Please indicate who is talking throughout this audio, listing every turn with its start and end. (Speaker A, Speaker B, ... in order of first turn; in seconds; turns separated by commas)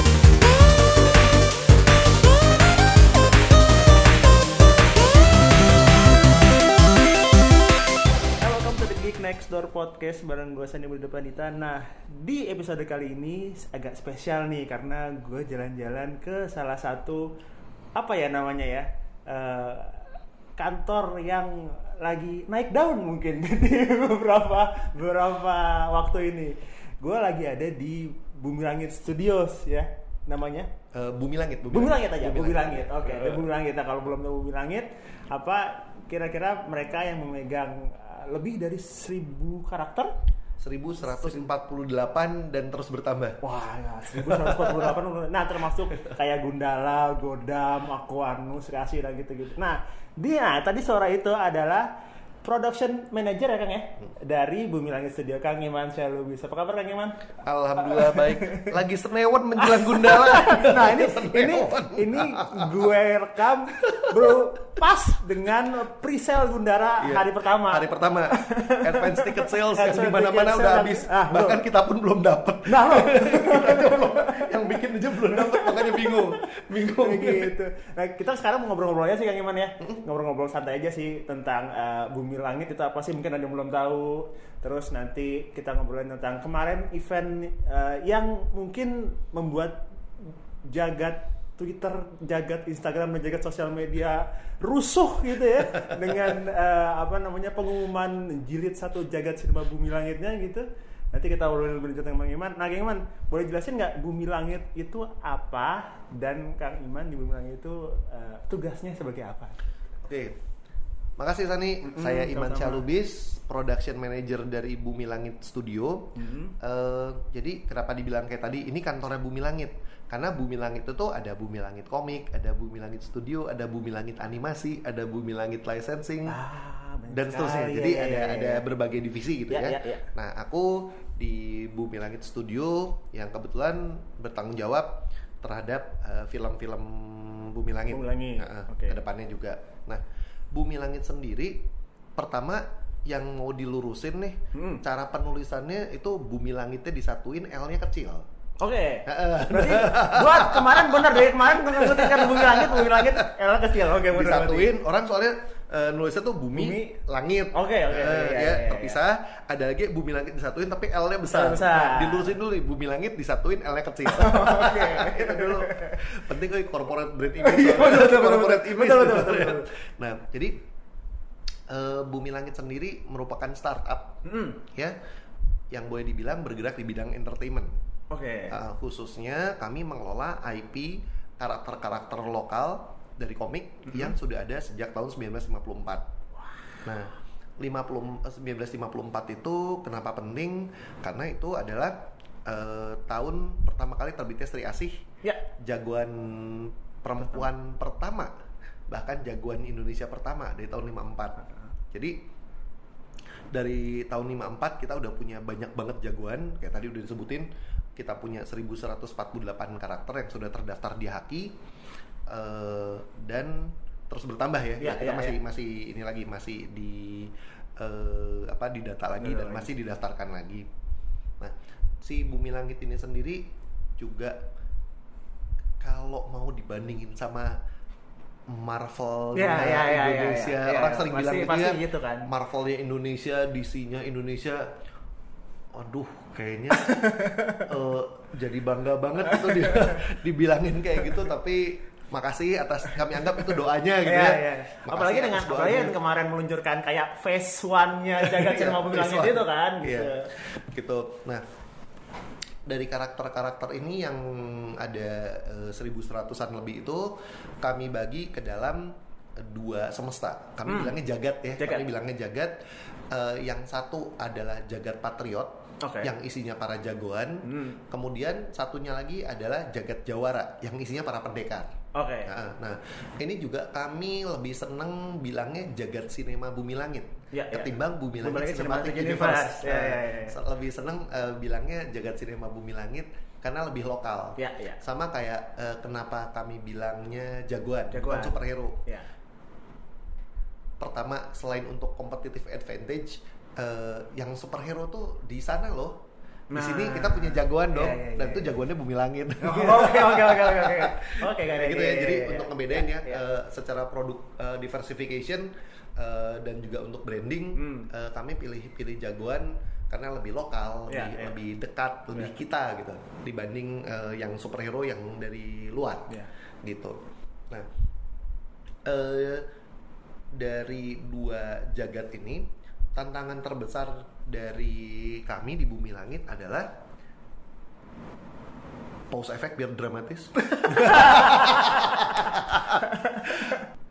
Speaker A: 8.4-17.3, Speaker A: 17.9-30.7, Speaker B: 30.9-33.5, Speaker A: 31.7-40.1, Speaker B: 40.6-43.4, Speaker A: 41.0-41.5, Speaker A: 43.4-51.9, Speaker B: 44.3-44.9, Speaker A: 52.4-57.2, Speaker B: 57.4-62.9, Speaker A: 57.8-58.7, Speaker A: 59.6-71.6, Speaker B: 63.7-64.3, Speaker B: 67.0-77.5, Speaker A: 72.7-74.6, Speaker A: 75.3-76.3, Speaker A: 77.0-109.5, Speaker B: 110.0-110.4, Speaker B: 111.2-126.4, Speaker A: 111.8-112.8, Speaker A: 116.2-116.5, Speaker A: 126.3-128.6, Speaker B: 127.1-141.7, Speaker A: 129.5-130.0, Speaker A: 137.9-139.0, Speaker B: 142.2-148.3, Speaker A: 144.5-144.8, Speaker A: 148.6-154.7, Speaker B: 149.1-153.3, Speaker B: 154.1-170.6, Speaker A: 156.6-157.0, Speaker A: 157.5-159.0, Speaker A: 161.3-162.4, Speaker A: 164.2-166.0, Speaker A: 167.4-169.7, Speaker B: 171.7-174.9, Speaker A: 174.2-174.6, Speaker B: 175.7-177.8, Speaker A: 178.1-178.6, Speaker B: 178.5-186.1, Speaker A: 183.9-184.2, Speaker B: 186.8-195.0, Speaker B: 195.6-198.3, Speaker B: 198.9-202.2, Speaker B: 203.5-211.5, Speaker B: 212.3-220.7, Speaker A: 214.8-215.4, Speaker A: 219.2-219.7, Speaker B: 221.4-223.5, Speaker B: 224.0-224.4, Speaker B: 225.8-227.6, Speaker B: 228.5-234.7, Speaker A: 229.4-232.3, Speaker B: 235.7-246.0, Speaker A: 236.8-237.6, Speaker A: 239.3-240.0, Speaker A: 244.1-250.3, Speaker B: 248.2-251.4, Speaker B: 252.7-262.6, Speaker A: 260.7-261.0, Speaker A: 261.6-261.9, Speaker B: 263.1-288.8, Speaker A: 265.8-266.1, Speaker A: 267.4-267.8, Speaker A: 271.9-272.3, Speaker A: 277.3-280.4, Speaker A: 284.4-284.8, Speaker A: 287.9-289.1, Speaker B: 290.8-296.0, Speaker A: 296.5-298.6, Speaker B: 296.5-317.7, Speaker A: 299.4-303.2, Speaker A: 307.6-307.9, Speaker A: 310.9-311.3, Speaker B: 318.9-319.5, Speaker B: 320.4-326.7, Speaker B: 329.1-333.6, Speaker A: 330.7-332.3